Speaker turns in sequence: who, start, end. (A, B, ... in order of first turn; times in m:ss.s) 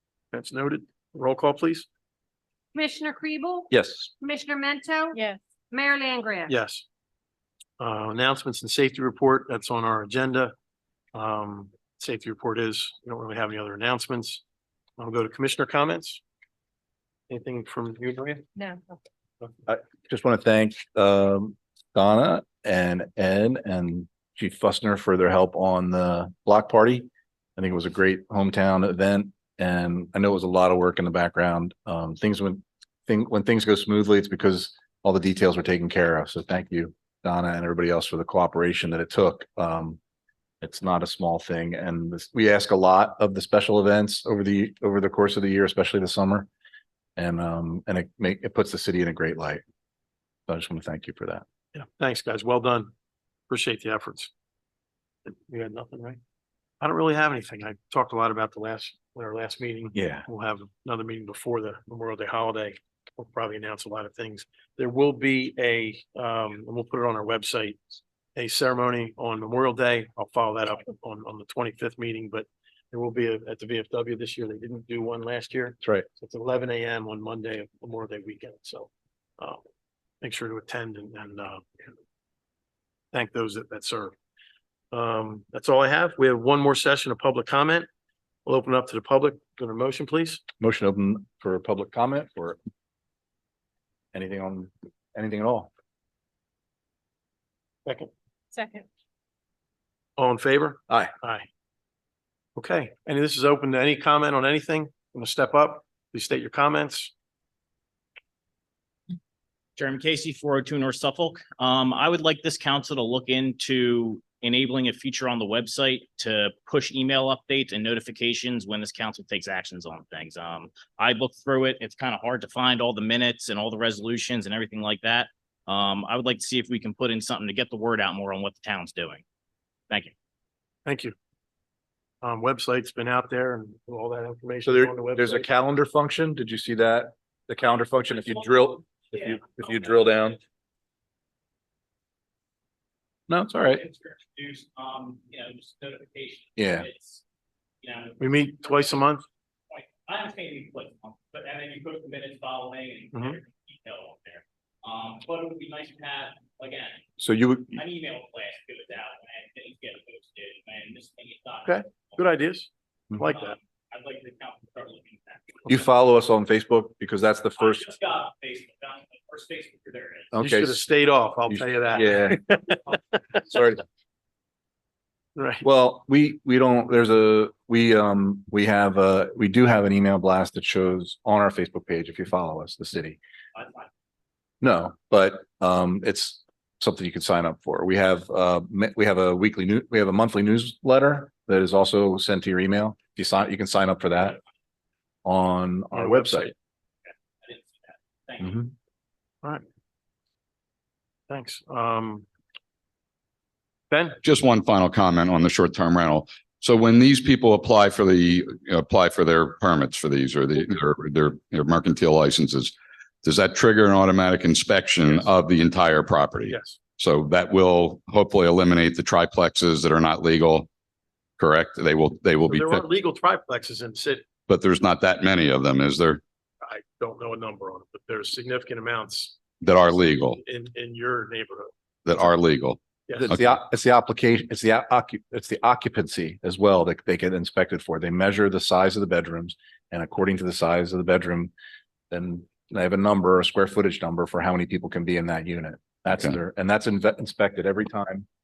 0:00.3-0:01.9 A
0:02.7-0:06.5 B
0:03.7-0:04.1 C
0:06.5-0:06.8 A
0:07.8-0:10.5 A
0:11.1-0:14.4 A
0:15.0-0:16.2 A
0:17.3-0:18.4 A
0:19.7-0:40.0 C
0:40.6-0:46.5 C
0:47.2-0:49.6 C
0:50.5-0:51.4 C
0:51.7-0:52.9 A
0:53.5-0:54.3 A
0:55.2-0:56.2 A
0:56.8-1:07.8 A
0:59.9-1:00.2 C
1:08.3-1:19.6 A
1:20.2-1:21.9 A
1:23.1-1:24.1 A
1:24.9-1:27.9 A
1:28.4-1:30.4 A
1:30.6-1:32.6 C
1:34.1-1:35.7 C
1:37.8-1:38.1 A
1:40.2-1:41.5 A
1:42.6-1:47.1 A
1:49.8-2:09.2 D
2:10.8-2:11.1 A
2:12.2-2:15.5 A
2:14.6-2:20.4 C
2:18.1-2:20.4 D
2:23.3-2:23.8 C
2:23.6-2:27.2 D
2:26.6-2:26.9 C
2:27.8-2:29.1 D
2:28.2-2:29.2 A
2:29.7-2:37.0 D
2:33.1-2:33.4 A
2:37.2-2:37.8 C
2:37.7-2:42.2 D
2:41.6-2:43.6 A
2:43.2-2:45.8 D
2:45.7-2:47.8 C
2:47.6-2:50.3 D
2:50.3-2:50.8 C
2:50.4-2:53.0 A
2:51.5-2:52.5 C
2:53.5-2:53.8 C
2:55.4-2:55.6 A
2:55.6-3:03.2 C
3:03.6-3:03.9 D
3:04.6-3:14.4 C
3:15.2-3:16.5 C
3:15.9-3:16.5 A
3:17.1-3:18.7 D
3:18.4-3:18.7 C
3:21.3-3:22.2 A
3:23.9-3:24.2 A
3:24.2-3:40.7 E
3:36.4-3:36.8 A
3:41.4-3:42.8 E
3:42.5-3:44.2 A
3:44.5-3:46.2 E
3:46.6-3:49.3 A
3:49.6-3:50.4 E
3:50.4-3:51.7 A
3:52.0-3:52.8 E
3:53.2-4:01.5 C
3:53.3-3:53.6 E
4:02.1-4:08.2 C